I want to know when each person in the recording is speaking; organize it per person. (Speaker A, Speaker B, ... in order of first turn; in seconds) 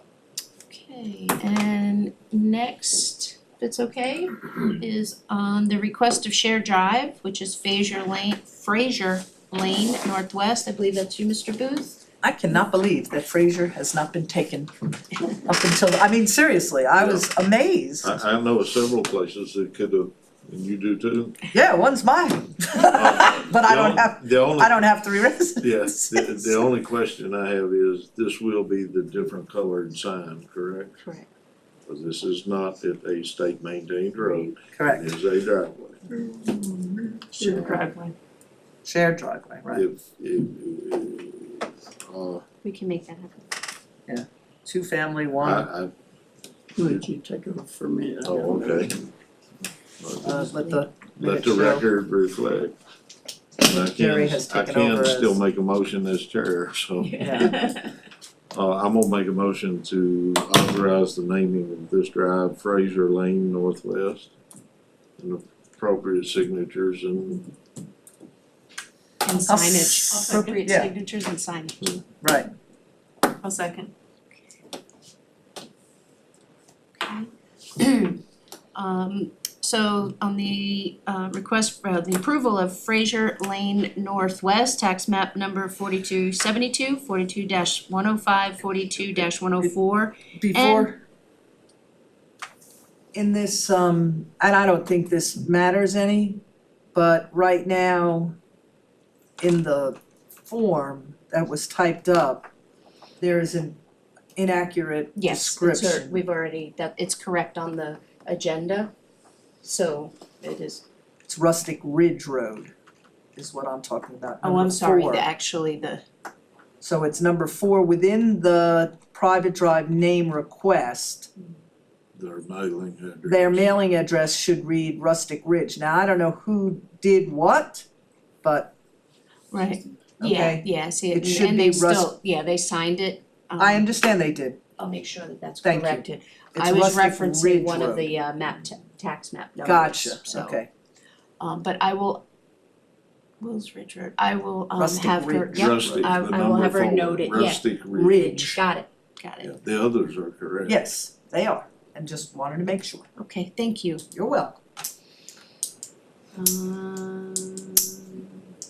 Speaker A: 0.7-12.0, 31.0-31.2, 42.6-43.5, 57.0-57.9, 69.2-72.0, 77.0-78.2, 78.7-90.9, 105.2-108.9, 109.6-110.8, 114.4-116.0, 129.5-133.9, 134.8-140.6, 141.4-142.2, 143.4-149.5, 153.2-154.0, 156.3-158.4
Speaker B: 12.2-18.2, 21.5-26.5, 34.7-35.1, 38.8-39.9, 44.1-45.7, 50.2-51.8, 53.8-55.4, 57.2-57.5, 69.4-70.9, 72.2-72.5, 90.4-91.0, 93.1-96.4, 96.9-98.3, 99.4-102.5, 103.2-103.8, 104.3-106.2, 111.3-112.7, 113.3-115.2, 116.8-121.3, 123.2-127.8, 128.4-128.7, 130.2-132.1, 133.6-134.6, 135.6-138.1, 139.6-140.7, 144.8-146.1, 147.9-148.6, 150.7-153.1, 154.1-154.6
Speaker C: 17.0-17.2, 18.0-21.4, 22.9-24.8, 25.6-30.9, 31.9-36.0, 37.4-37.8, 39.7-42.4, 45.4-45.9, 48.2-49.1, 50.0-50.5, 51.2-52.7, 53.6-57.6, 58.5-64.3, 65.2-67.5, 122.2-123.7, 145.5-148.2, 149.4-150.8
Speaker D: 36.2-37.2, 46.8-49.0
Speaker E: 37.4-38.1, 70.1-70.6, 73.4-73.9